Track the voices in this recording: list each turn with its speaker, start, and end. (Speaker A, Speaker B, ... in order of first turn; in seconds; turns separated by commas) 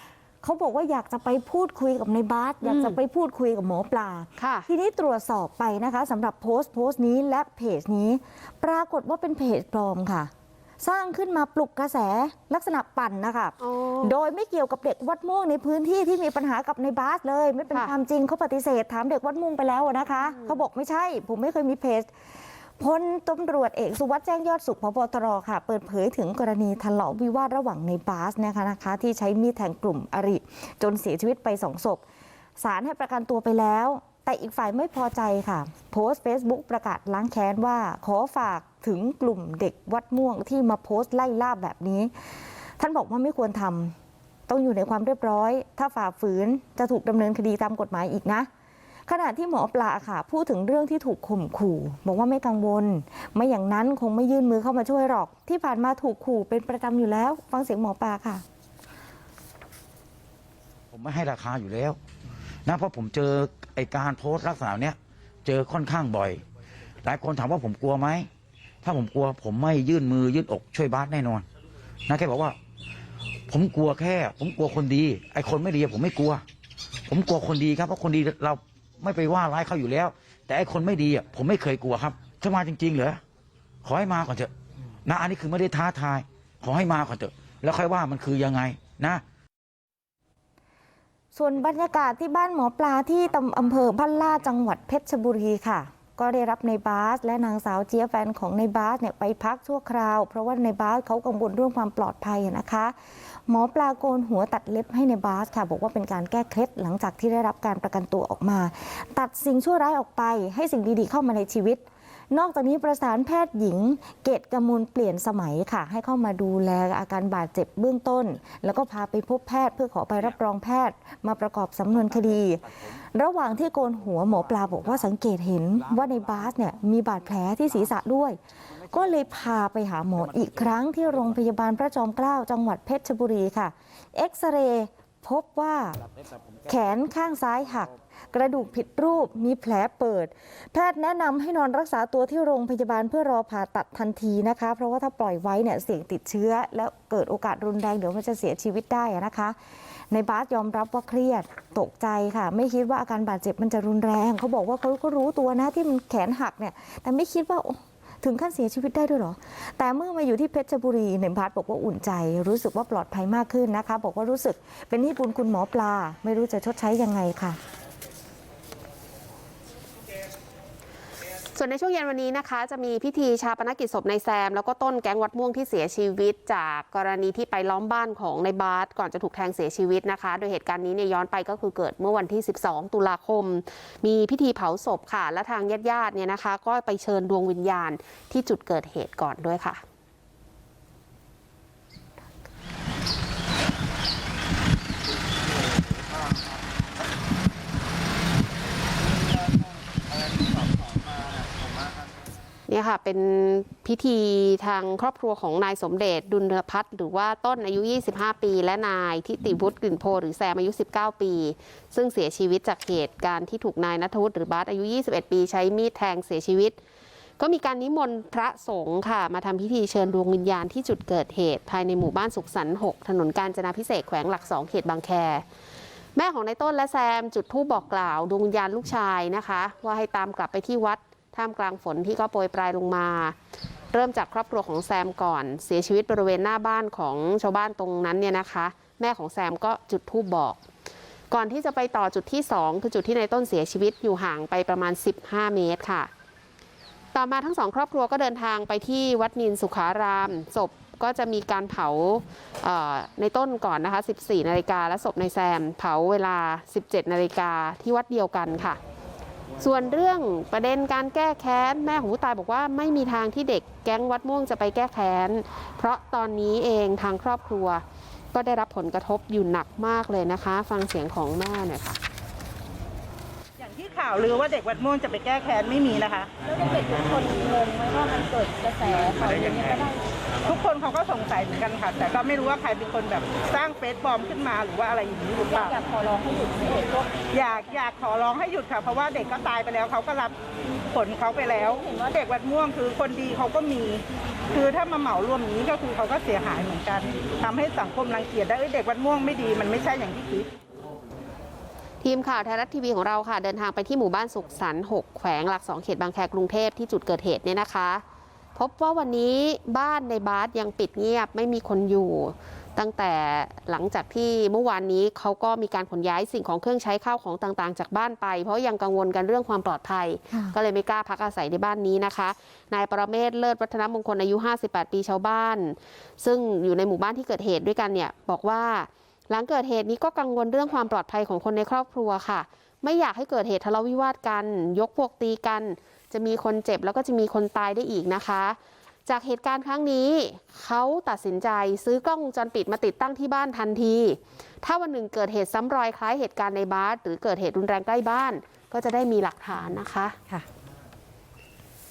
Speaker A: 0.4-22.1, Speaker B: 2.6-3.0, Speaker B: 4.4-4.7, Speaker B: 13.6-14.2, Speaker B: 20.2-20.5, Speaker A: 22.8-32.0, Speaker A: 32.6-42.1, Speaker A: 42.8-43.9, Speaker A: 44.5-48.5, Speaker A: 49.1-58.4, Speaker C: 60.9-62.0, Speaker C: 62.6-66.4, Speaker C: 67.0-68.3, Speaker C: 68.8-71.4, Speaker C: 72.1-72.6, Speaker C: 73.5-76.4, Speaker C: 77.1-83.2, Speaker C: 83.8-84.5, Speaker C: 85.0-89.2, Speaker A: 91.3-102.9, Speaker A: 103.5-128.4, Speaker A: 128.9-136.0, Speaker A: 136.7-149.6, Speaker A: 150.1-167.6, Speaker B: 171.5-189.8, Speaker B: 202.7-216.8, Speaker B: 217.4-225.4, Speaker B: 226.2-233.3, Speaker B: 233.9-240.6, Speaker B: 241.3-246.1, Speaker B: 247.1-258.8, Speaker B: 259.6-267.8, Speaker B: 268.3-272.0, Speaker D: 273.6-276.3, Speaker E: 276.4-280.0, Speaker D: 279.1-279.7, Speaker D: 280.4-285.8, Speaker E: 285.5-287.8, Speaker D: 287.3-290.4, Speaker D: 290.9-300.5, Speaker E: 291.7-292.2, Speaker B: 302.0-308.0, Speaker B: 308.6-350.2